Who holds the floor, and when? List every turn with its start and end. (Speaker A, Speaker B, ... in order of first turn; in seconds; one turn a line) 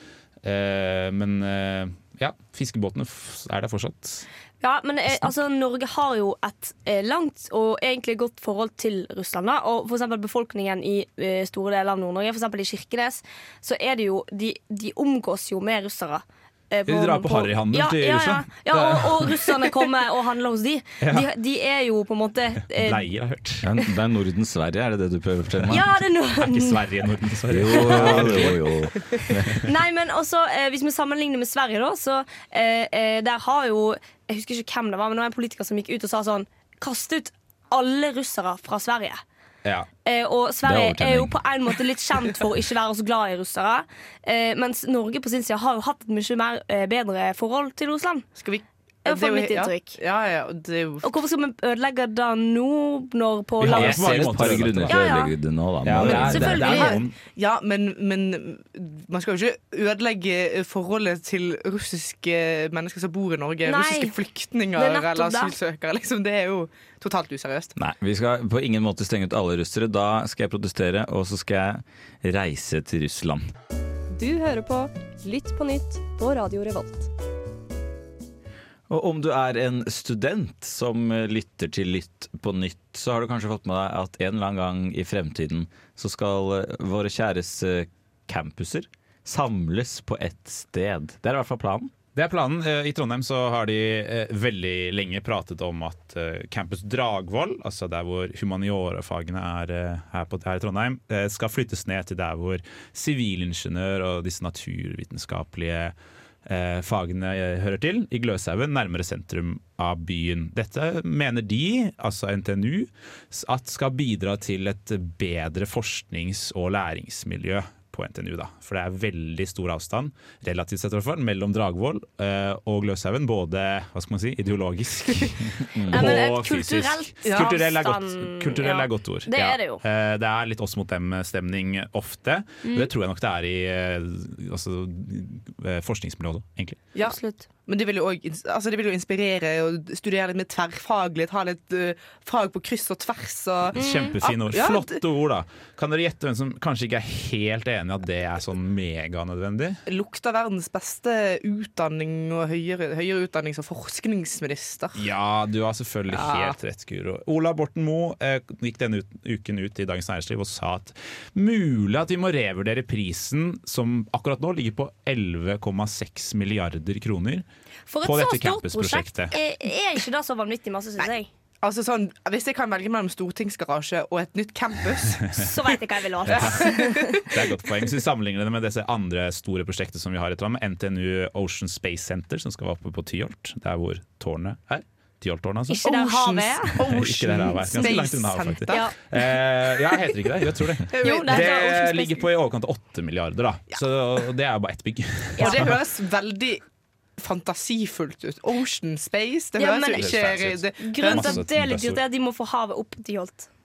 Speaker A: 0.4-4.2
Speaker B: 4.6-23.0
Speaker A: 5.1-5.3
Speaker A: 16.9-19.7
Speaker A: 21.0-21.3
Speaker A: 22.8-23.7
Speaker C: 23.6-25.9
Speaker B: 25.7-26.8
Speaker A: 26.4-28.7
Speaker C: 27.5-29.7
Speaker B: 29.6-39.2
Speaker B: 40.0-48.2
Speaker C: 40.6-41.4
Speaker D: 48.4-51.1
Speaker B: 49.0-50.0
Speaker B: 51.0-55.3
Speaker A: 53.6-55.0
Speaker C: 53.6-56.8
Speaker A: 55.8-57.1
Speaker B: 56.0-57.0
Speaker D: 56.6-67.7
Speaker B: 63.6-64.1
Speaker B: 64.7-65.5
Speaker C: 67.8-73.4
Speaker E: 74.1-77.1
Speaker C: 78.9-91.9
Speaker A: 92.2-105.9
Speaker A: 106.5-136.8
Speaker C: 125.7-126.2
Speaker B: 125.9-129.8
Speaker D: 127.2-127.5
Speaker D: 136.9-145.0
Speaker B: 137.0-137.4
Speaker A: 143.7-149.8
Speaker B: 143.8-144.2
Speaker D: 149.9-155.0
Speaker A: 154.9-167.4
Speaker D: 156.1-156.6
Speaker B: 167.9-171.3
Speaker A: 168.0-169.3
Speaker D: 171.6-175.4
Speaker B: 175.3-177.2
Speaker A: 176.3-176.7
Speaker D: 176.3-177.3
Speaker A: 177.3-185.8
Speaker B: 185.7-187.0
Speaker D: 185.8-188.9
Speaker A: 186.8-195.8
Speaker B: 187.7-188.0
Speaker B: 188.7-188.9
Speaker D: 190.8-191.7
Speaker B: 191.0-192.2
Speaker D: 195.4-196.6
Speaker D: 197.2-201.4
Speaker B: 199.6-200.2
Speaker A: 200.0-202.0
Speaker B: 200.8-203.5